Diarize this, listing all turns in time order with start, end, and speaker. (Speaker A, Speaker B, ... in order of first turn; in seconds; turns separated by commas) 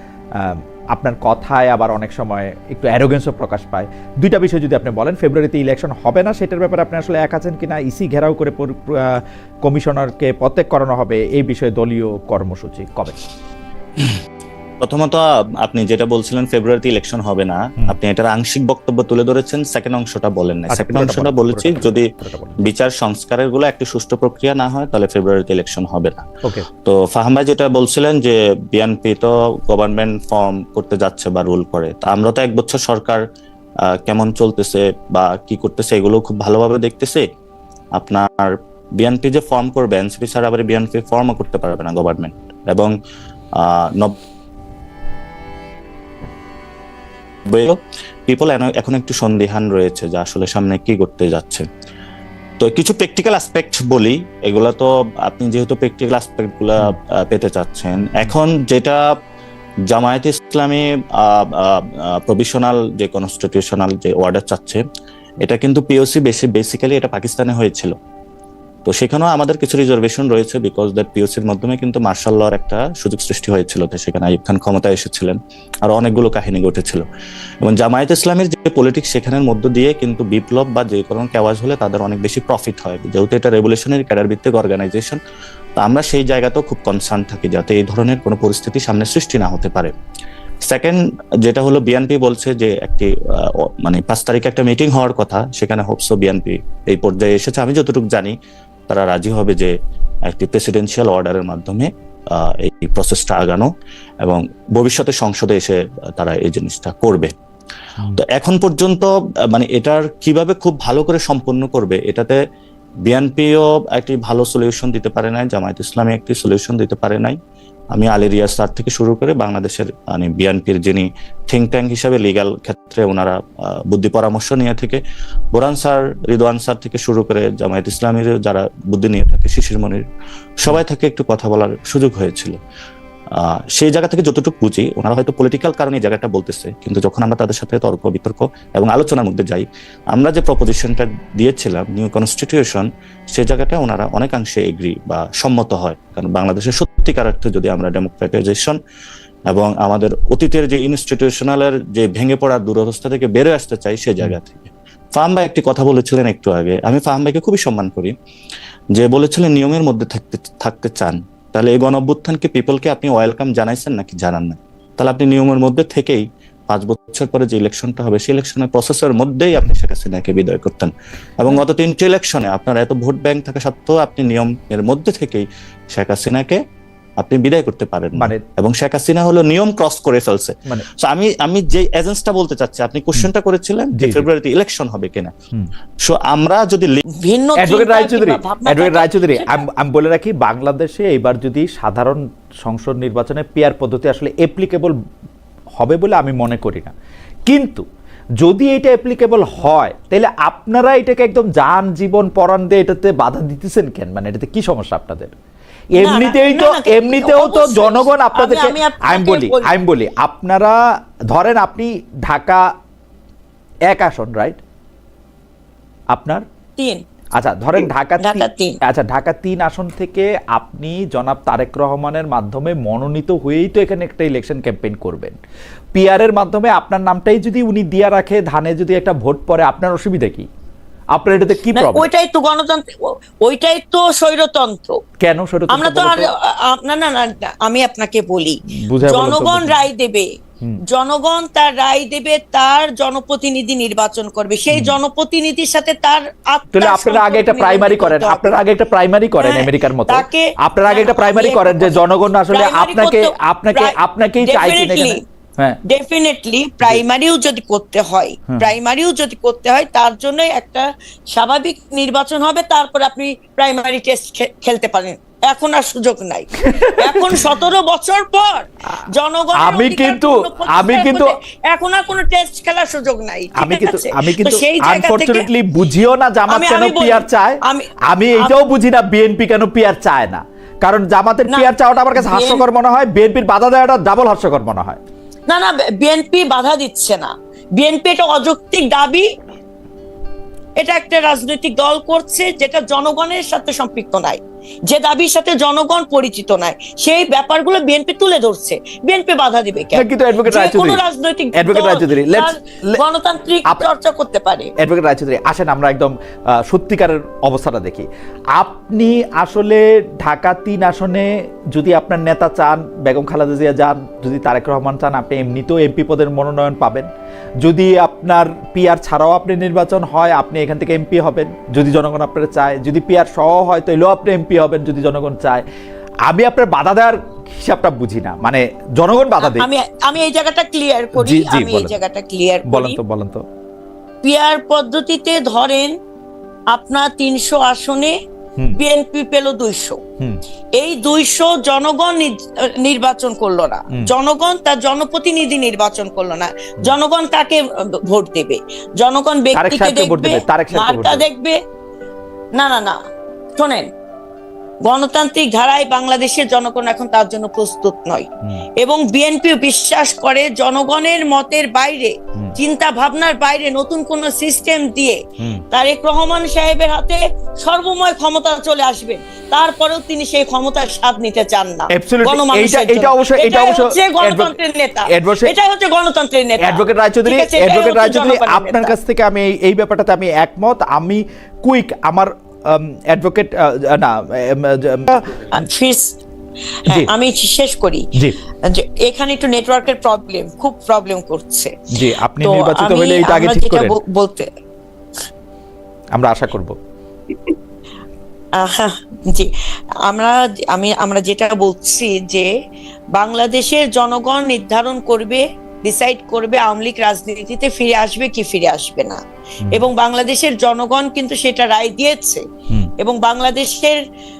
Speaker A: 0.4-13.2, Speaker B: 14.8-22.1, Speaker A: 20.7-22.6, Speaker B: 22.6-26.2, Speaker B: 26.8-33.2, Speaker B: 34.0-37.2, Speaker B: 38.0-42.9, Speaker B: 43.6-44.1, Speaker B: 47.5-51.6, Speaker B: 52.6-59.0, Speaker B: 59.9-64.8, Speaker B: 65.4-67.9, Speaker B: 68.8-77.0, Speaker B: 77.6-85.2, Speaker B: 85.8-89.9, Speaker B: 90.7-98.3, Speaker B: 98.9-99.7, Speaker B: 100.3-103.7, Speaker B: 104.2-107.3, Speaker B: 108.2-112.4, Speaker B: 113.1-117.4, Speaker B: 117.9-125.0, Speaker B: 125.5-130.0, Speaker B: 130.6-132.6, Speaker B: 133.3-148.8, Speaker B: 149.5-158.1, Speaker B: 158.9-176.6, Speaker B: 177.2-185.3, Speaker A: 178.2-178.4, Speaker A: 183.9-184.2, Speaker B: 186.0-186.9, Speaker C: 187.2-189.6, Speaker A: 187.6-194.9, Speaker A: 195.8-196.9, Speaker A: 197.5-197.8, Speaker A: 198.4-205.3, Speaker A: 205.9-210.8, Speaker C: 206.0-209.7, Speaker A: 211.3-212.6, Speaker A: 213.9-214.6, Speaker A: 216.1-216.4, Speaker C: 216.8-217.0, Speaker A: 217.4-225.3, Speaker C: 218.2-218.8, Speaker A: 225.9-230.5, Speaker A: 231.1-232.1, Speaker C: 231.7-232.8, Speaker C: 233.4-234.9, Speaker A: 235.2-236.3, Speaker C: 235.7-240.3, Speaker A: 238.7-239.8, Speaker C: 240.9-248.6, Speaker A: 244.7-245.0, Speaker A: 246.7-255.8, Speaker C: 249.4-255.2, Speaker C: 255.9-275.5, Speaker A: 266.6-267.5, Speaker A: 268.9-271.3, Speaker A: 273.5-285.0, Speaker C: 276.5-278.7, Speaker C: 281.5-282.6, Speaker C: 285.5-289.3, Speaker C: 290.8-304.7, Speaker A: 299.9-301.0, Speaker A: 301.5-303.0, Speaker A: 304.8-308.1, Speaker A: 308.6-317.1, Speaker A: 317.6-325.6, Speaker A: 326.3-329.7, Speaker C: 329.4-333.0, Speaker A: 331.2-332.0, Speaker A: 332.7-333.4, Speaker C: 334.2-335.9, Speaker C: 336.7-338.1, Speaker C: 338.8-340.0, Speaker C: 340.8-351.6, Speaker A: 349.5-351.2, Speaker C: 352.6-353.0, Speaker C: 353.6-353.9, Speaker C: 354.9-358.3, Speaker C: 358.8-365.2, Speaker C: 365.7-378.9, Speaker A: 371.9-374.6, Speaker A: 375.1-375.5, Speaker A: 376.6-385.5, Speaker C: 385.5-386.1, Speaker C: 386.9-388.1, Speaker C: 388.7-391.7, Speaker A: 391.9-394.0, Speaker C: 392.4-394.5, Speaker A: 396.1-396.7, Speaker C: 398.6-399.5, Speaker C: 400.1-402.5, Speaker C: 403.1-409.2, Speaker C: 409.7-412.4, Speaker C: 413.0-414.0